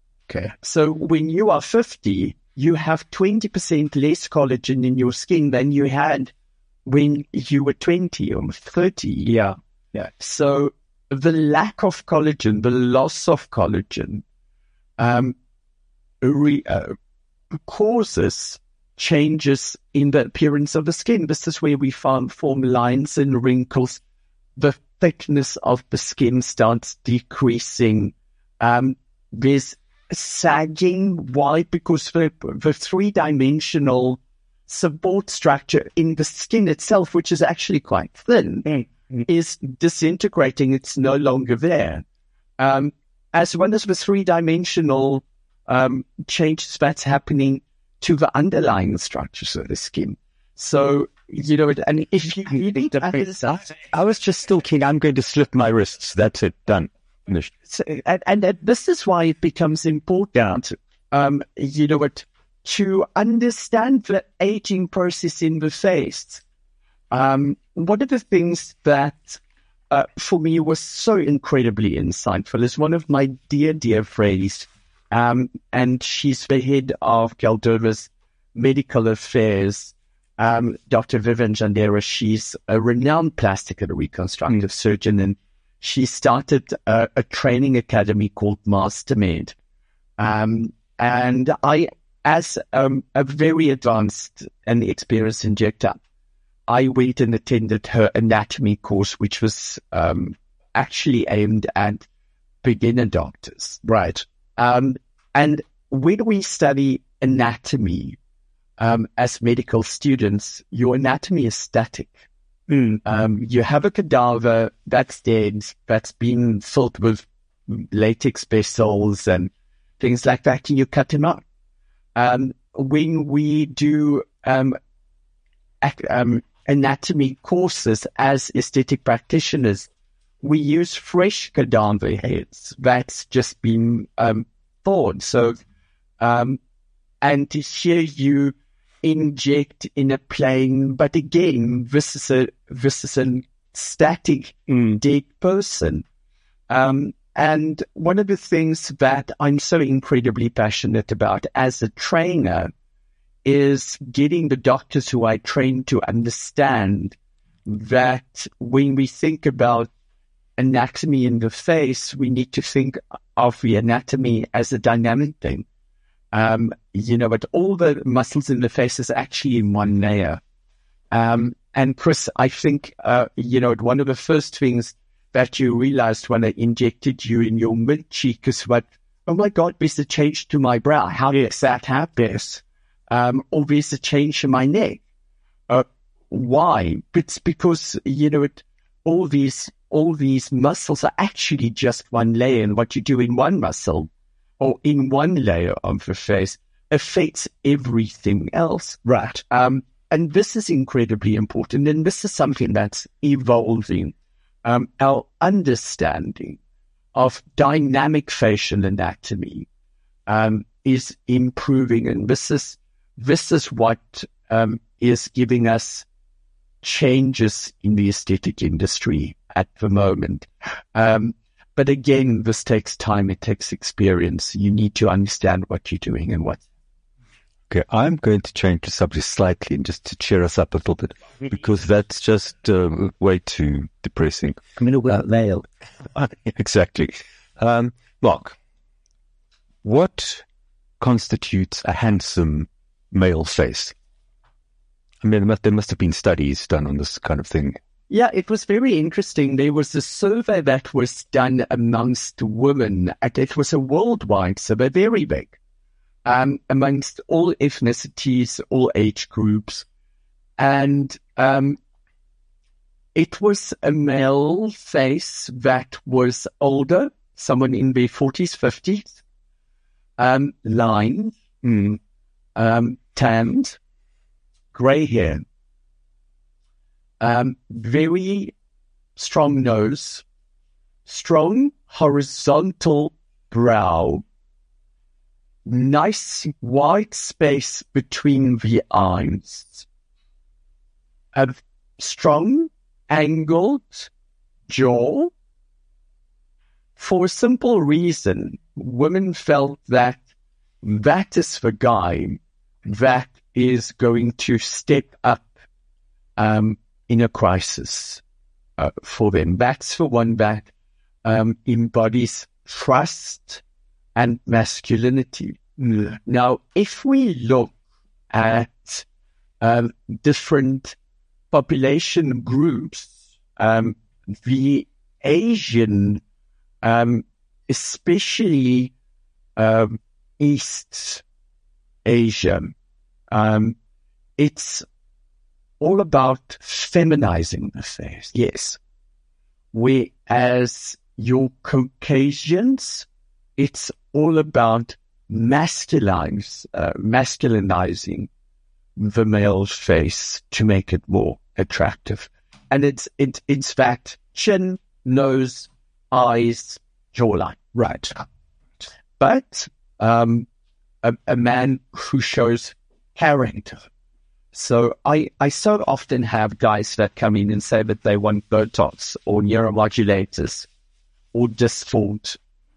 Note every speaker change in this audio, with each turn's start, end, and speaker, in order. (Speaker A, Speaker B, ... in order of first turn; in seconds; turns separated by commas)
Speaker A: 0.3-0.5, Speaker B: 0.6-6.3, Speaker B: 6.8-9.3, Speaker A: 9.2-10.1, Speaker B: 10.1-14.2, Speaker B: 15.0-15.3, Speaker B: 16.2-16.9, Speaker B: 17.7-24.0, Speaker B: 24.6-38.7, Speaker A: 38.7-39.2, Speaker B: 39.2-42.0, Speaker B: 42.6-53.5, Speaker A: 52.9-53.8, Speaker C: 53.9-57.5, Speaker B: 57.6-66.4, Speaker B: 67.1-89.5, Speaker B: 90.2-96.0, Speaker B: 96.7-102.0, Speaker B: 102.6-103.8, Speaker A: 103.8-104.2, Speaker B: 104.6-108.2, Speaker B: 108.8-112.2, Speaker A: 112.7-113.0, Speaker B: 113.0-121.4, Speaker B: 122.1-124.8, Speaker B: 125.8-129.9, Speaker B: 130.4-135.6, Speaker B: 136.2-136.6, Speaker B: 137.2-146.0, Speaker A: 144.7-145.0, Speaker B: 146.7-152.7, Speaker B: 153.4-159.9, Speaker B: 160.6-165.6, Speaker B: 166.3-170.4, Speaker B: 171.1-185.0, Speaker B: 185.7-194.1, Speaker B: 194.6-206.6, Speaker A: 199.0-199.4, Speaker B: 207.1-209.7, Speaker B: 210.3-216.0, Speaker B: 216.8-226.6, Speaker C: 227.7-234.7, Speaker A: 234.8-235.6, Speaker C: 236.1-238.6, Speaker C: 239.8-240.4, Speaker C: 241.0-243.9, Speaker C: 245.2-247.8, Speaker B: 248.1-255.6, Speaker B: 256.2-259.9, Speaker B: 260.6-261.8, Speaker B: 263.1-269.2, Speaker B: 270.2-271.4, Speaker A: 271.6-271.9, Speaker B: 272.6-273.8, Speaker B: 274.7-275.4, Speaker B: 277.2-278.5, Speaker B: 279.1-280.2, Speaker B: 281.1-284.2, Speaker B: 285.6-289.9, Speaker B: 291.3-294.1, Speaker B: 294.7-295.3, Speaker B: 297.0-300.2, Speaker B: 300.8-305.5, Speaker B: 306.4-308.2, Speaker B: 308.8-310.7, Speaker B: 311.2-313.6, Speaker B: 314.1-317.7, Speaker B: 318.3-319.0, Speaker B: 319.6-320.9, Speaker B: 321.5-326.2, Speaker B: 326.8-328.9, Speaker B: 329.6-331.2, Speaker B: 332.0-332.7, Speaker B: 333.3-333.8, Speaker B: 334.4-334.8, Speaker B: 335.8-338.8, Speaker B: 339.7-343.1, Speaker B: 343.6-348.3, Speaker B: 349.0-357.6, Speaker A: 357.7-358.1, Speaker B: 359.2-360.5, Speaker B: 361.0-363.8, Speaker B: 364.5-370.7, Speaker B: 371.3-372.4